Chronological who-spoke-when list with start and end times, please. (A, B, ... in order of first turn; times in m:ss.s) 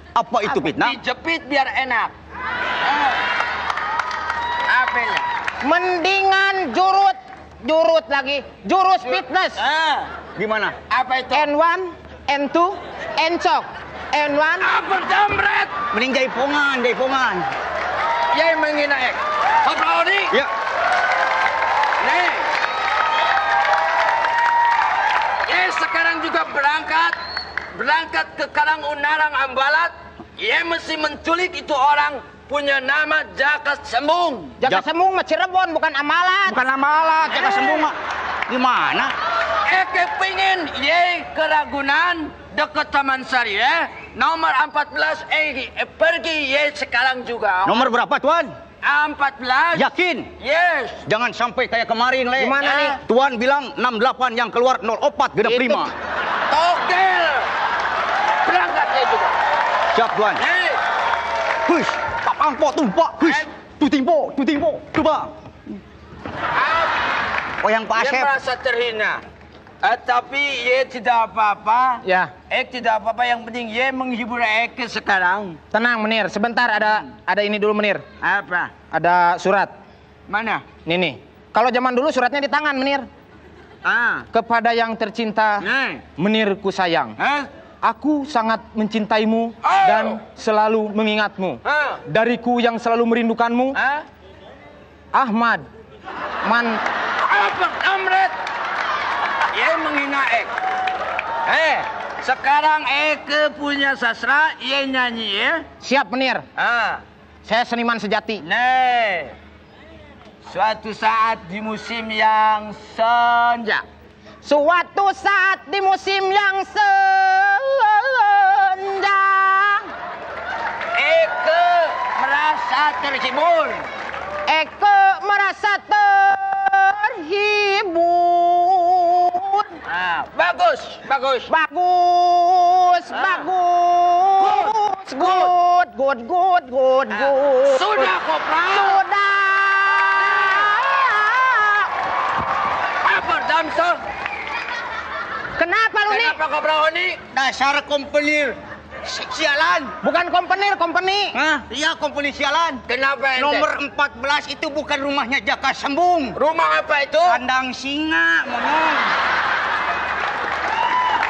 0:00.2-0:01.0 A
0:00.5-0:02.1 B
0:04.7-0:05.3 B
0:05.6-0:09.6 C
0:09.6-0:10.1 B
0:10.4-0:10.8 A
0:10.9-0:11.5 B
0:11.3-0:14.7 C
0:14.6-0:15.7 B
0:15.9-0:17.5 A
0:18.3-0:20.4 B
0:22.0-0:22.5 B
0:25.5-0:27.2 B
0:27.7-0:34.6 B
0:34.6-0:36.6 C
0:36.5-0:39.1 A
0:37.3-0:37.8 B
0:39.6-0:47.9 B
0:47.7-0:48.5 A
0:48.8-0:51.0 B
0:49.7-0:50.3 A
0:51.0-0:55.9 A
0:52.4-0:53.0 C
0:52.6-0:53.0 B
0:55.4-0:55.9 C
0:56.5-0:57.5 B
0:58.4-0:59.4 B
0:59.9-1:00.4 A
1:00.4-1:00.8 B
1:01.7-1:05.3 A
1:06.6-1:07.0 B
1:07.6-1:08.3 A
1:08.0-1:09.2 B
1:09.8-1:15.6 B
1:12.0-1:12.3 C
1:15.7-1:18.0 C
1:18.2-1:18.7 B
1:18.9-1:19.7 C
1:20.3-1:20.6 B
1:20.8-1:23.1 C
1:23.8-1:24.3 B
1:24.3-1:27.2 C
1:25.6-1:26.0 B
1:27.2-1:27.5 B
1:27.8-1:33.8 C
1:29.6-1:30.2 B
1:31.7-1:32.0 B
1:33.8-1:34.0 B
1:35.1-1:35.7 C
1:36.4-1:36.8 C
1:37.2-1:38.4 B
1:39.5-1:40.5 B
1:41.5-1:45.7 B
1:45.8-1:46.4 C
1:46.6-1:47.0 B
1:47.4-1:48.4 C
1:48.4-1:49.3 B
1:50.5-1:53.8 B
1:54.4-1:59.9 C
2:01.0-2:03.9 B
2:04.5-2:09.8 C
2:09.9-2:11.5 B
2:11.5-2:18.1 C
2:13.1-2:13.5 B
2:14.4-2:15.5 B
2:17.1-2:19.0 B
2:18.7-2:21.9 C
2:20.2-2:20.7 B
2:23.0-2:24.0 B
2:25.6-2:26.4 C
2:26.1-2:27.2 B
2:27.3-2:30.0 A
2:30.0-2:31.4 C
2:31.3-2:32.8 A
2:32.9-2:33.7 B
2:33.4-2:36.4 A
2:36.4-2:37.4 B
2:37.2-2:39.1 A